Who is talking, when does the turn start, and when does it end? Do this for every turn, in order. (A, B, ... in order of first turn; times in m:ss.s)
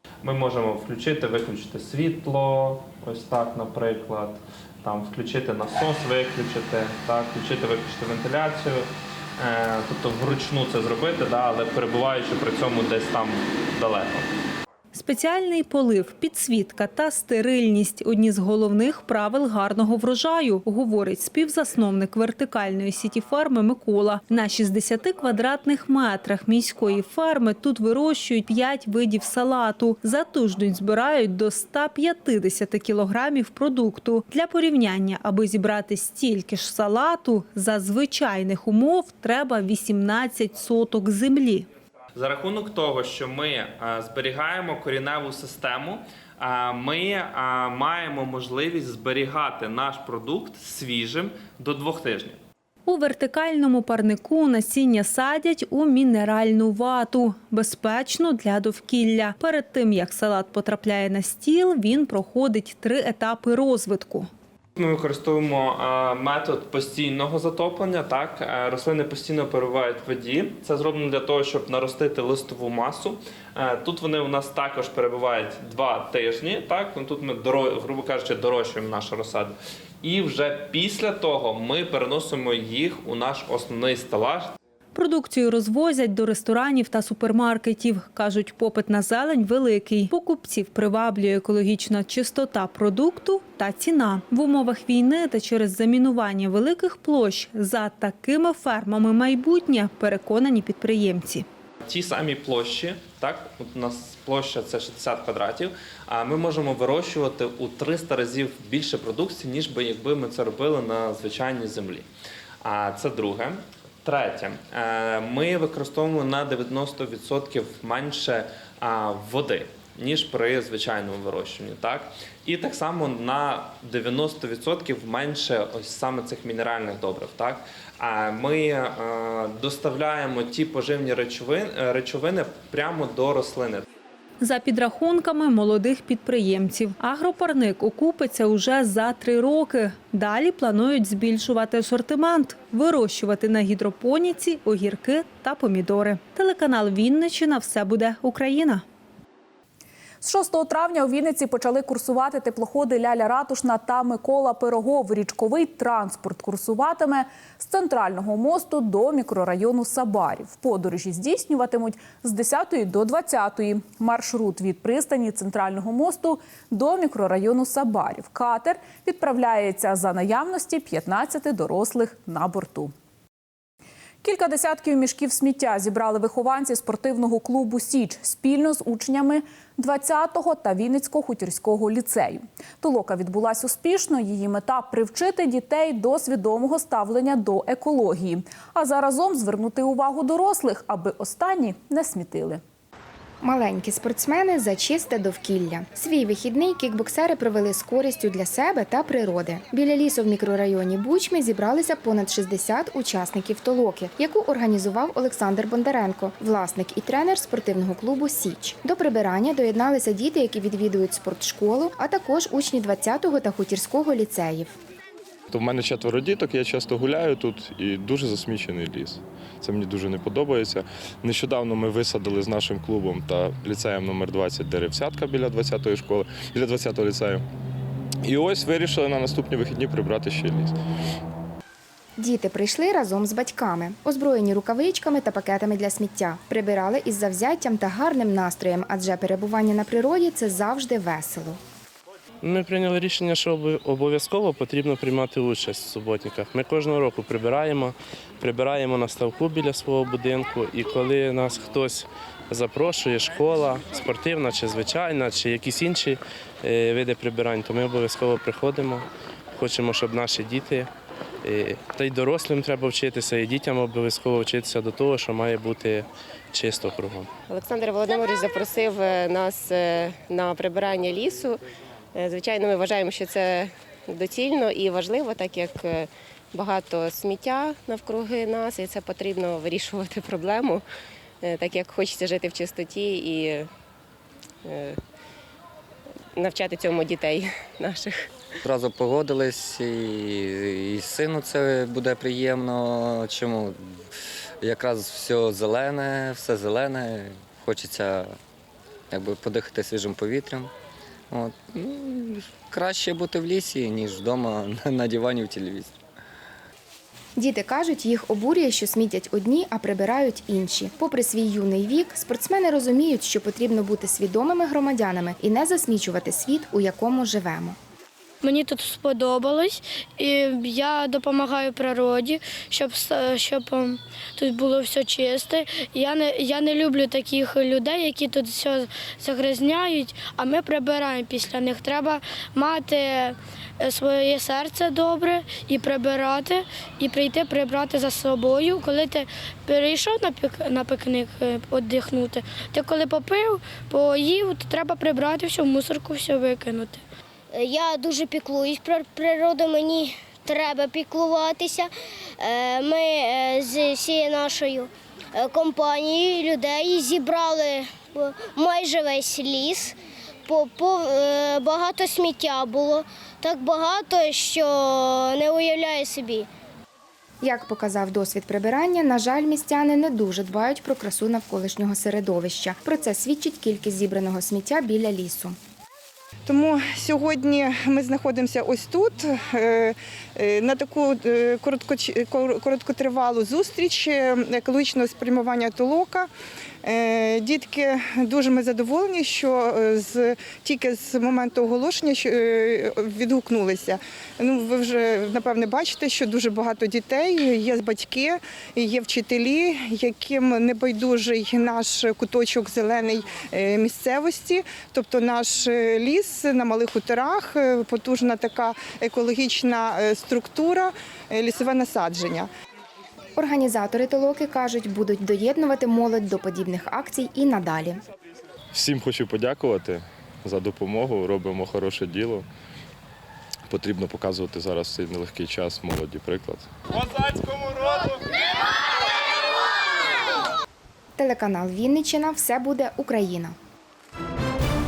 0:00.2-0:14.3 A
0:14.9-0:41.7 B
0:42.2-0:52.4 A
0:52.9-1:04.3 B
1:04.8-1:24.6 A
1:24.9-1:41.5 B
1:41.8-1:52.1 A
1:52.6-2:13.9 A
2:14.4-2:28.8 B
2:30.2-2:52.9 C
2:54.2-3:12.6 C
3:13.4-3:34.8 D
3:35.5-3:47.4 E
3:48.2-3:50.8 E
3:52.2-4:01.6 D
4:02.4-4:20.9 F
4:21.4-4:27.4 F
4:27.4-4:31.6 G
4:32.1-4:40.8 G
4:41.4-4:43.7 G
4:44.6-4:45.0 G
4:46.4-4:48.3 G
4:48.6-4:54.1 H
4:54.6-4:58.4 H
4:59.1-5:00.7 H
5:01.3-5:05.9 H
5:07.4-5:17.8 D
5:18.4-5:47.0 I
5:47.5-5:51.9 J
5:52.4-5:59.9 J
6:00.5-6:06.5 J
6:07.4-6:15.6 D
6:16.5-6:26.3 K
6:26.8-6:52.5 K
6:53.4-6:58.0 D
6:58.7-7:02.5 E
7:03.7-7:07.8 E
7:11.2-7:13.6 D